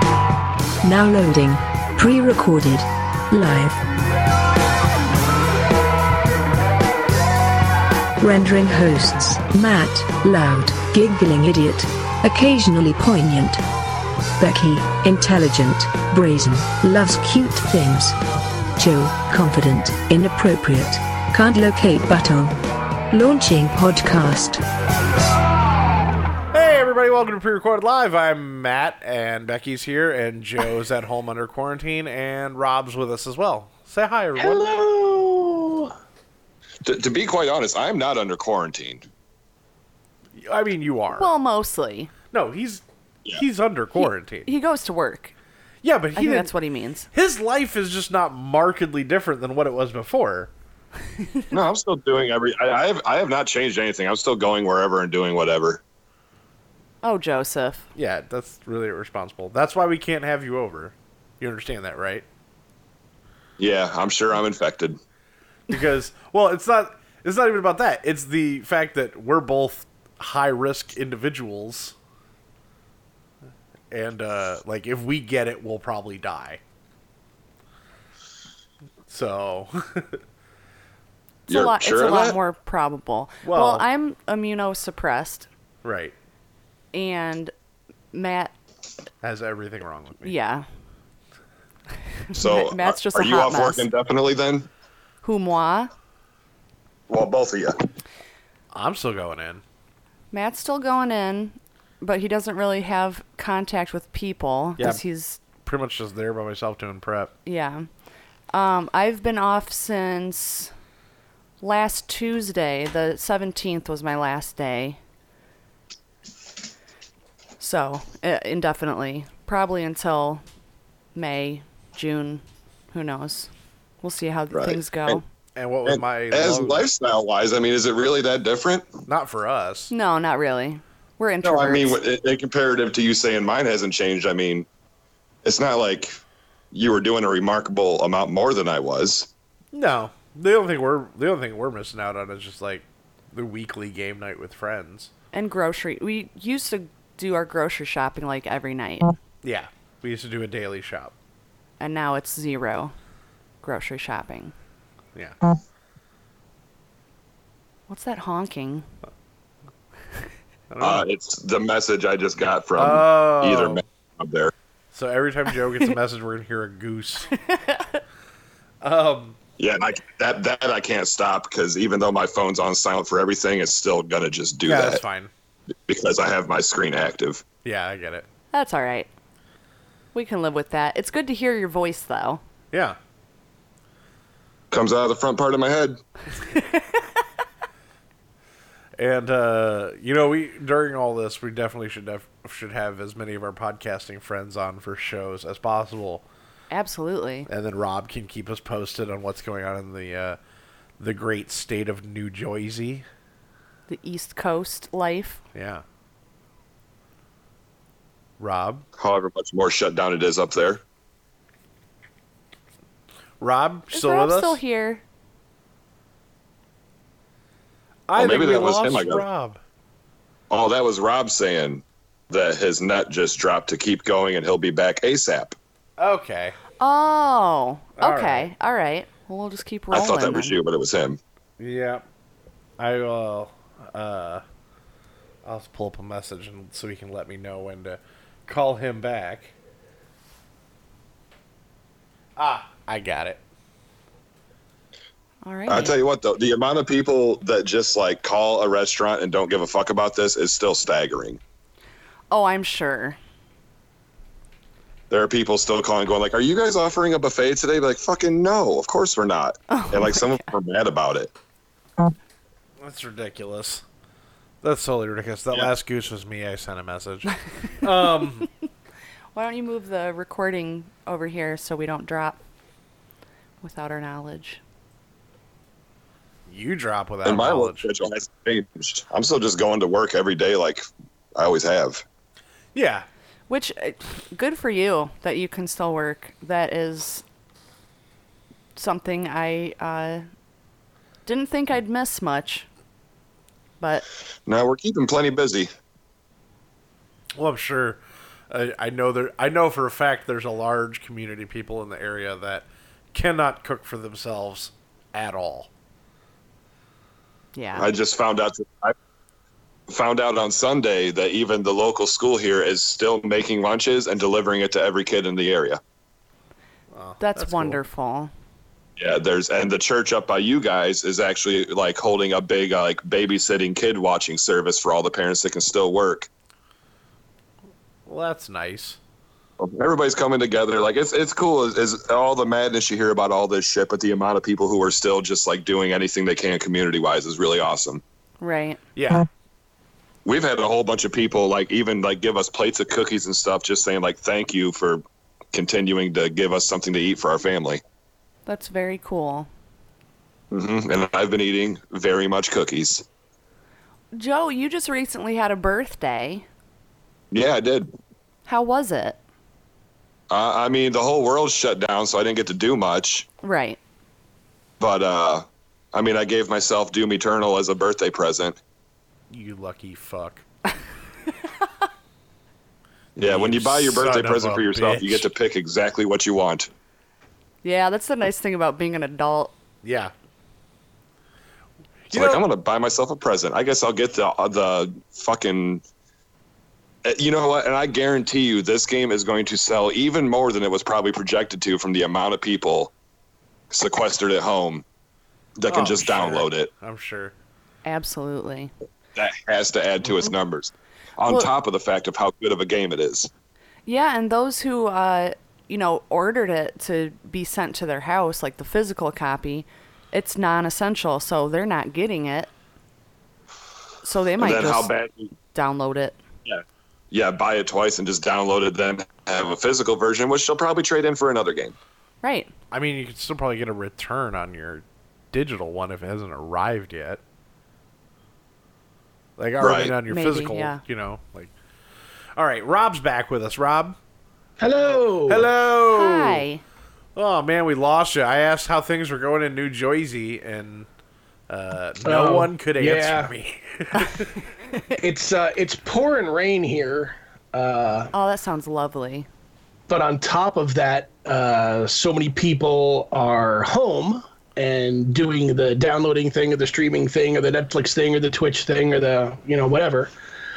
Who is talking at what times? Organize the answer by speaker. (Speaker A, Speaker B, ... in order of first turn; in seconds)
Speaker A: 0.8-3.8, 8.2-13.6, 14.4-18.1, 18.8-22.5, 23.1-24.6
Speaker B: 26.5-34.6, 40.4-41.3, 42.3-42.8, 43.3-44.5, 45.8-46.5, 47.1-50.5, 57.9-62.2, 65.7-72.0, 73.9-76.6, 79.1-80.2, 83.4-83.9, 85.8-86.1, 89.2-90.3, 98.7-99.6, 105.6-107.3, 125.6-126.9, 129.1-129.9, 139.7-145.1, 149.4-151.1, 160.7-161.1, 162.8-163.8, 164.9-167.3, 168.8-169.3, 174.7-175.3, 177.6-178.2, 189.0-196.2, 197.5-200.4, 201.0-203.1, 205.5-205.8, 208.4-208.8, 213.4-214.6, 218.1-219.6, 226.0-226.6, 228.0-228.5, 231.6-232.0, 232.8-234.4, 235.4-239.5, 242.4-243.4, 262.8-263.8, 264.6-268.5, 276.5-277.9, 282.7-283.1, 297.4-305.7, 316.9-317.8, 328.1-329.0, 338.9-339.2, 369.3-370.4, 373.1-375.3, 379.8-380.1, 382.1-382.4, 395.7-397.3, 422.7-427.2, 429.4-431.5, 432.4-434.0, 435.3-436.4, 437.1-440.9, 441.5-444.2
Speaker C: 34.4-35.9, 434.6-435.5, 442.0-443.3, 444.9-448.1, 449.9-460.1
Speaker D: 36.8-39.0, 51.5-55.8, 63.6-65.0, 81.5-82.4, 92.3-94.7, 97.1-97.8, 124.5-125.2, 125.8-128.9, 131.4-134.7, 135.4-136.2, 136.7-139.3, 160.8-164.5, 169.6-175.0, 175.9-177.4, 184.7-186.0, 209.0-210.8, 218.2-219.2, 220.5-225.6, 229.9-231.2, 245.7-251.4, 255.1-261.3, 277.2-280.8, 281.4-282.0, 294.4-295.7, 307.8-308.9, 309.9-315.8, 319.0-326.3, 329.6-338.0, 340.2-345.0, 345.5-347.8, 350.5-353.0, 357.3-357.9, 360.3-363.2, 364.8-368.6, 373.2-376.7, 382.1-385.8, 387.0-392.9, 393.7-394.8, 395.6-396.7, 399.1-403.3, 414.4-415.3, 416.5-421.8, 429.6-429.9
Speaker E: 41.2-42.1, 44.0-45.3, 46.2-47.1, 57.0-57.9, 81.5-85.5, 86.9-87.5, 88.1-88.5, 90.2-90.7, 92.3-93.9, 95.2-95.9, 100.3-105.4, 107.5-107.9, 108.5-110.7, 111.6-115.0, 117.6-120.4, 121.2-123.5, 124.0-125.2, 129.9-132.0, 145.3-149.1, 151.8-152.9, 153.6-154.5, 157.9-158.9, 167.3-168.0, 178.5-179.1, 180.1-182.4, 186.6-186.8, 196.7-197.5, 203.9-205.4, 213.9-215.0, 226.8-230.6, 245.4-246.0, 252.3-253.2, 259.7-260.5, 269.3-272.4, 273.6-274.6, 283.5-287.2, 288.8-290.3, 291.2-292.7, 293.8-294.1, 307.5-307.9, 317.2-318.3, 338.4-338.8, 348.4-349.5, 354.1-356.4, 358.5-359.2, 363.4-363.8, 377.6-379.5, 397.8-398.7, 403.9-412.5, 414.0-414.9, 415.5-416.2, 422.2-422.5, 430.1-430.8, 435.9-436.6, 448.1-449.3